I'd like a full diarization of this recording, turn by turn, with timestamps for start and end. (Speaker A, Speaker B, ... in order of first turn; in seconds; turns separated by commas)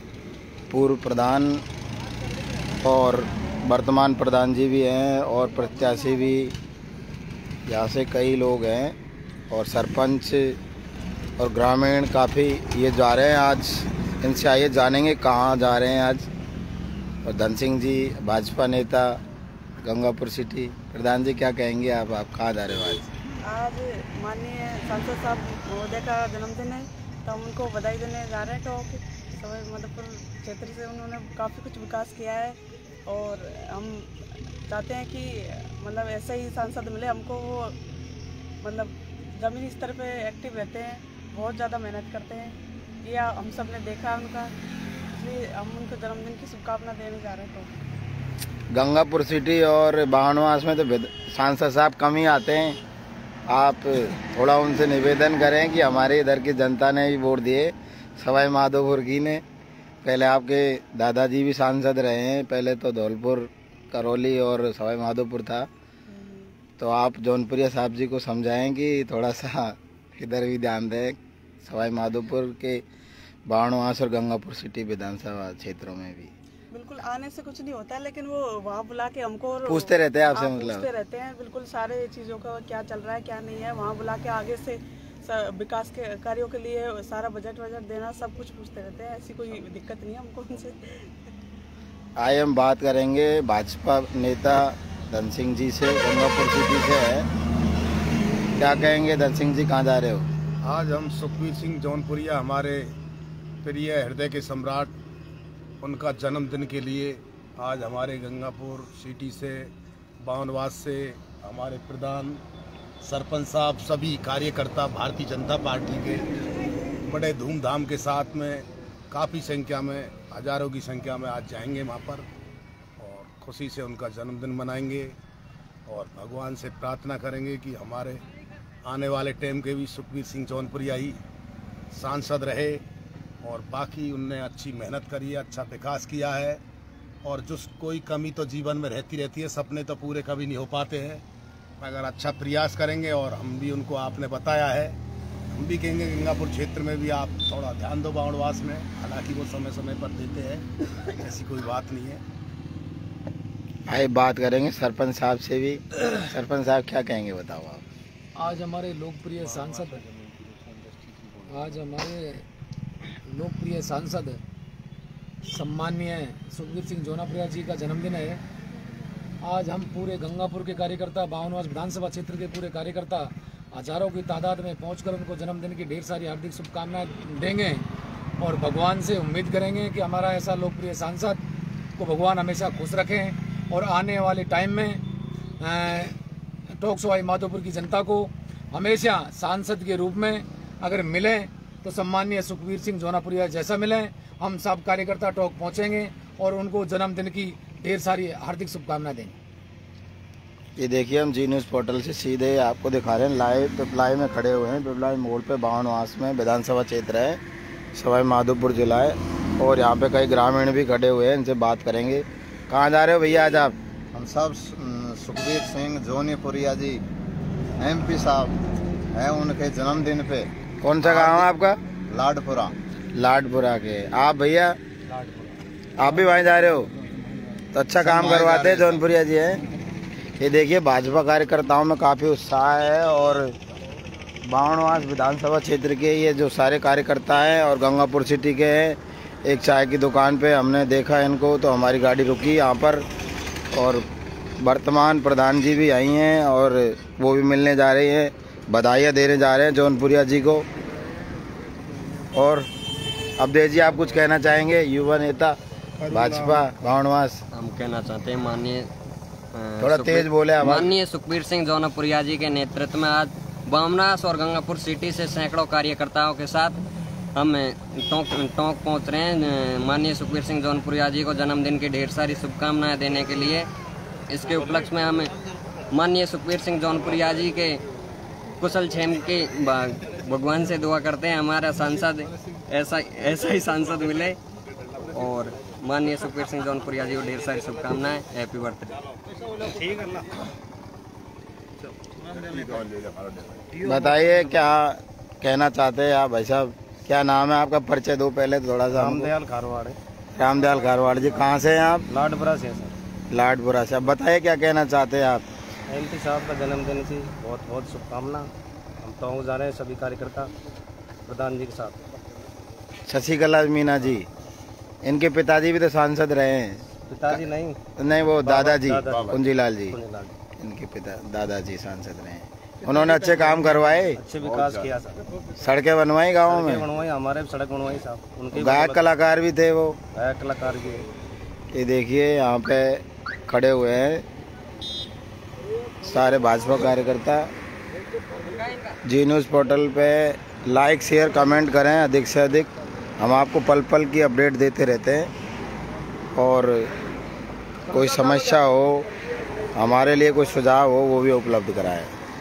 Speaker A: 0.7-1.6, Speaker A: 2.8-6.5, Speaker A: 7.7-8.9, Speaker A: 9.5-10.6, Speaker A: 11.4-16.3, Speaker A: 17.2-19.2, Speaker A: 19.8-23.1, Speaker B: 23.4-34.1, Speaker B: 34.7-37.8, Speaker B: 38.6-44.5, Speaker B: 45.1-47.7, Speaker A: 48.7-52.8, Speaker A: 53.5-59.4, Speaker A: 60.0-65.7, Speaker B: 66.1-66.5, Speaker A: 66.8-72.8, Speaker A: 73.5-76.3, Speaker B: 76.7-91.1, Speaker A: 79.6-80.8, Speaker A: 92.2-97.3, Speaker A: 98.6-100.3, Speaker C: 100.6-102.9, Speaker C: 103.6-104.9, Speaker C: 105.8-109.7, Speaker C: 110.2-112.4, Speaker C: 113.0-116.2, Speaker C: 117.0-122.2, Speaker C: 123.0-125.2, Speaker C: 125.9-128.2, Speaker C: 128.8-131.2, Speaker C: 131.9-132.8, Speaker C: 133.4-136.6, Speaker C: 137.2-141.2, Speaker C: 141.8-145.0, Speaker C: 145.5-152.2, Speaker A: 153.9-157.8, Speaker D: 158.3-160.0, Speaker E: 159.9-161.6, Speaker D: 161.4-162.4, Speaker D: 163.2-164.4, Speaker D: 165.4-168.4, Speaker D: 169.4-177.8, Speaker D: 178.4-181.4, Speaker D: 182.0-185.0, Speaker D: 185.6-186.1, Speaker D: 186.8-199.4, Speaker A: 200.8-207.4, Speaker A: 207.9-213.7, Speaker F: 214.1-217.0, Speaker F: 217.8-218.5, Speaker F: 219.1-220.5, Speaker A: 220.8-221.8, Speaker F: 221.0-221.5, Speaker F: 222.1-222.7, Speaker A: 223.1-224.8, Speaker A: 226.0-226.9, Speaker A: 227.7-229.6, Speaker F: 228.0-229.0, Speaker A: 230.4-233.6, Speaker A: 234.4-243.0, Speaker A: 243.7-244.0, Speaker A: 244.6-250.6, Speaker A: 252.3-252.7, Speaker A: 253.4-255.6, Speaker C: 256.0-256.5, Speaker A: 256.1-257.4, Speaker G: 257.5-258.9, Speaker G: 259.5-266.8, Speaker A: 259.8-260.9, Speaker G: 267.3-273.7, Speaker G: 274.3-275.3, Speaker G: 275.9-277.8, Speaker G: 278.6-284.4, Speaker G: 285.1-289.1, Speaker E: 289.6-290.2, Speaker E: 292.3-292.8, Speaker A: 293.8-299.3, Speaker E: 298.9-300.0, Speaker A: 300.4-302.0, Speaker E: 302.1-302.9, Speaker A: 303.3-305.4, Speaker E: 305.9-308.5, Speaker E: 309.0-310.5, Speaker E: 311.2-312.0, Speaker A: 313.1-314.2, Speaker A: 315.0-316.8, Speaker E: 317.1-317.8, Speaker A: 318.0-320.0, Speaker E: 318.4-320.4, Speaker A: 320.6-324.2, Speaker E: 323.2-325.2, Speaker A: 325.6-326.8, Speaker E: 326.4-329.1, Speaker A: 328.5-330.0, Speaker E: 330.1-331.1, Speaker A: 331.7-334.2, Speaker A: 336.0-337.5, Speaker G: 338.5-338.9, Speaker A: 339.0-345.3, Speaker A: 346.3-346.9, Speaker A: 347.8-349.1, Speaker A: 349.7-352.1